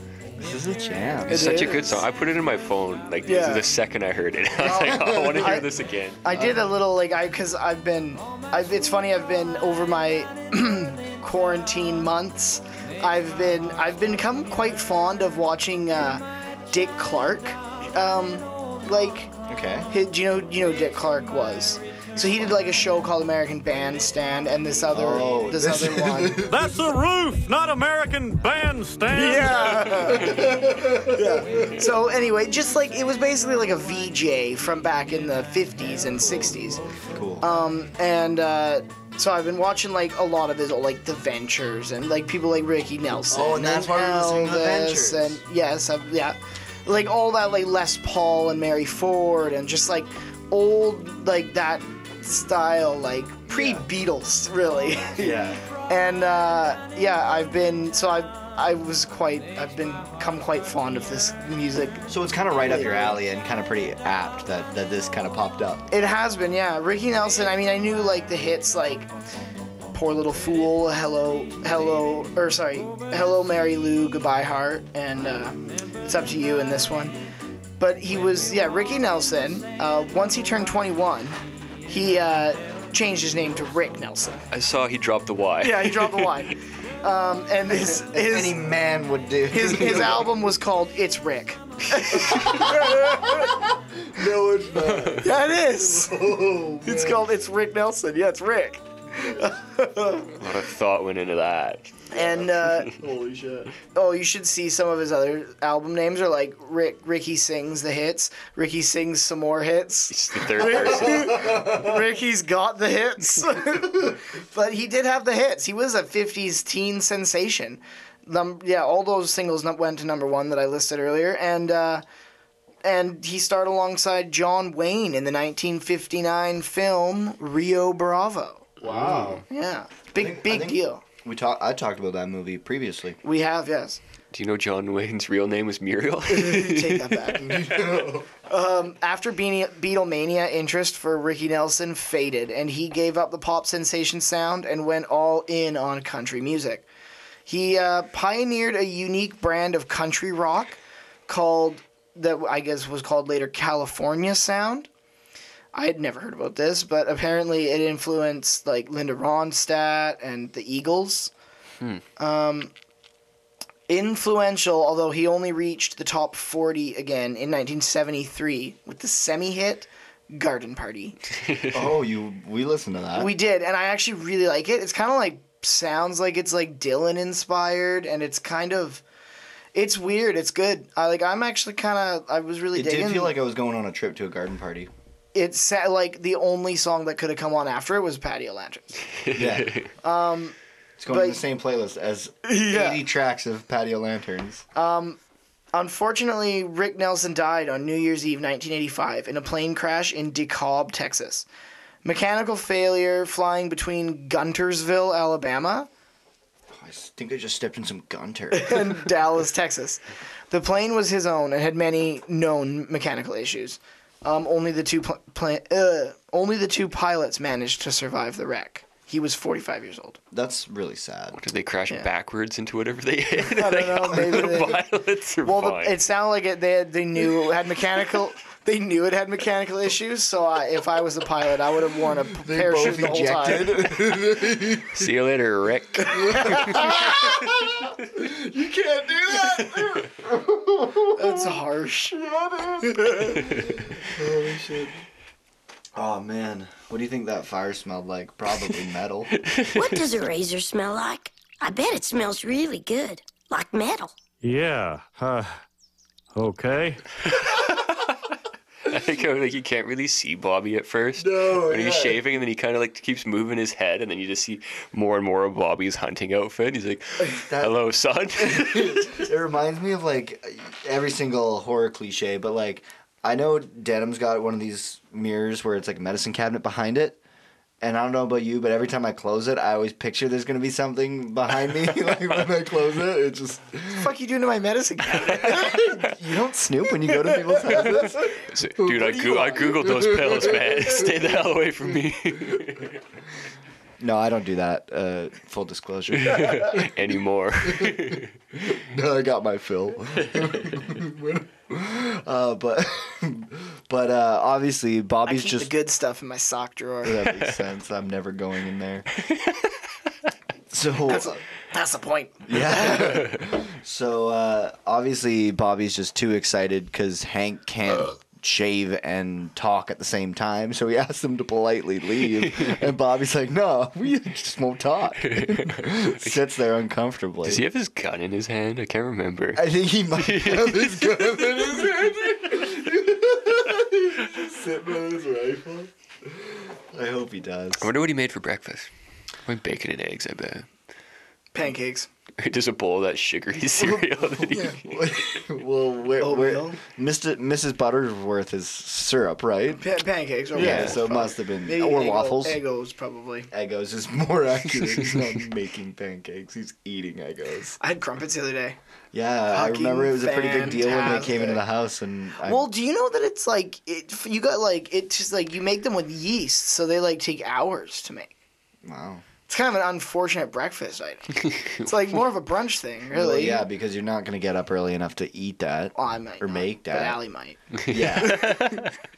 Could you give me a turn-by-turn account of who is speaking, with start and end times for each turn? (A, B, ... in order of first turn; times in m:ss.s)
0:00.4-0:01.5 A
0:01.3-0:02.0 B
0:01.3-0:06.2 C
0:03.2-0:03.7 B
0:04.6-0:05.6 A
0:05.4-0:05.7 B
0:06.2-0:19.3 B
0:06.3-0:06.6 A
0:19.5-0:19.9 A
0:19.9-0:26.4 B
0:24.9-0:26.8 A
0:26.5-0:30.0 D
0:29.1-0:36.8 B
0:30.1-0:31.4 A
0:37.0-0:37.4 A
0:37.4-1:02.1 B
0:43.3-0:45.4 A
0:53.5-0:53.8 A
0:55.2-0:55.6 A
1:02.1-1:05.9 A
1:02.6-1:03.2 B
1:05.9-1:09.1 B
1:09.9-1:17.2 B
1:17.8-1:24.4 B
1:24.5-1:26.5 C
1:25.6-1:28.6 B
1:27.8-1:30.3 A
1:29.5-1:33.6 B
1:32.5-1:37.3 A
1:34.9-1:35.2 C
1:35.2-1:36.2 B
1:36.8-1:40.4 B
1:40.4-1:42.1 C
1:42.1-1:43.0 B
1:42.2-1:43.7 A
1:43.9-2:02.0 B
1:50.1-1:51.5 C
2:02.8-2:08.7 B
2:08.8-2:09.4 C
2:08.8-2:09.4 A
2:09.5-2:11.0 B
2:10.2-2:13.2 A
2:13.2-2:14.0 B
2:14.3-2:17.4 C
2:16.3-2:17.8 B
2:17.4-2:18.3 A
2:18.5-2:26.9 B
2:27.5-2:34.9 B
2:35.7-2:41.3 B
2:42.2-2:42.7 B
2:43.9-2:51.2 B
2:51.5-2:51.8 C
2:51.7-2:53.3 A
2:53.2-2:59.0 B
2:59.7-3:03.4 B
3:02.7-3:04.9 A
3:05.3-3:09.0 B
3:09.2-3:09.9 C
3:09.4-3:09.8 A
3:10.0-3:10.6 B
3:11.0-3:14.6 A
3:11.1-3:11.4 B
3:12.5-3:13.0 B
3:14.8-3:15.2 B
3:15.7-3:21.5 B
3:22.0-3:25.9 B
3:26.7-3:29.0 A
3:28.5-3:40.2 B
3:40.3-3:41.4 A
3:41.4-3:46.0 C
3:43.5-3:44.8 B
3:45.4-3:53.9 B
3:52.3-3:55.0 A
3:54.9-3:57.5 C
3:56.2-4:01.5 A
3:56.2-3:57.0 B
4:01.1-4:02.2 B
4:02.2-4:05.0 A
4:02.8-4:03.4 B
4:06.0-4:09.3 A
4:09.4-4:10.0 C
4:09.7-4:14.1 E
4:14.4-4:15.6 D
4:16.4-4:17.0 D
4:17.3-4:18.1 C
4:18.8-4:29.3 C
4:21.2-4:22.3 A
4:27.3-4:27.8 A
4:28.4-4:37.2 A
4:37.8-4:44.1 A
4:43.9-4:45.8 B
4:45.3-4:51.2 A
4:45.4-4:45.9 C
4:47.8-4:53.0 C
4:54.0-4:56.9 A
4:56.2-4:58.3 C
4:58.6-5:05.7 A
5:00.3-5:00.8 C
5:05.2-5:07.3 B
5:07.0-5:09.1 A
5:09.2-5:09.7 C
5:10.7-5:11.4 A
5:11.1-5:13.0 B
5:12.5-5:27.6 A
5:25.2-5:26.4 C
5:27.4-5:29.6 C
5:29.6-5:37.9 A
5:30.2-5:31.7 C
5:37.8-5:38.9 C
5:39.5-5:40.7 C
5:41.5-5:42.1 B
5:42.4-5:45.2 C
5:43.8-5:49.8 A
5:46.2-5:46.8 B
5:49.8-5:53.5 B
5:50.5-5:52.6 A
5:50.6-5:50.9 C
5:53.5-5:57.8 A
5:57.8-5:58.8 B
5:59.1-6:02.7 A
5:59.5-6:01.6 B
6:02.4-6:08.3 B
6:08.8-6:09.2 A
6:09.5-6:13.6 B
6:11.5-6:11.8 C
6:13.1-6:17.2 A
6:16.0-6:17.6 B
6:17.8-6:18.9 C
6:17.9-6:18.8 A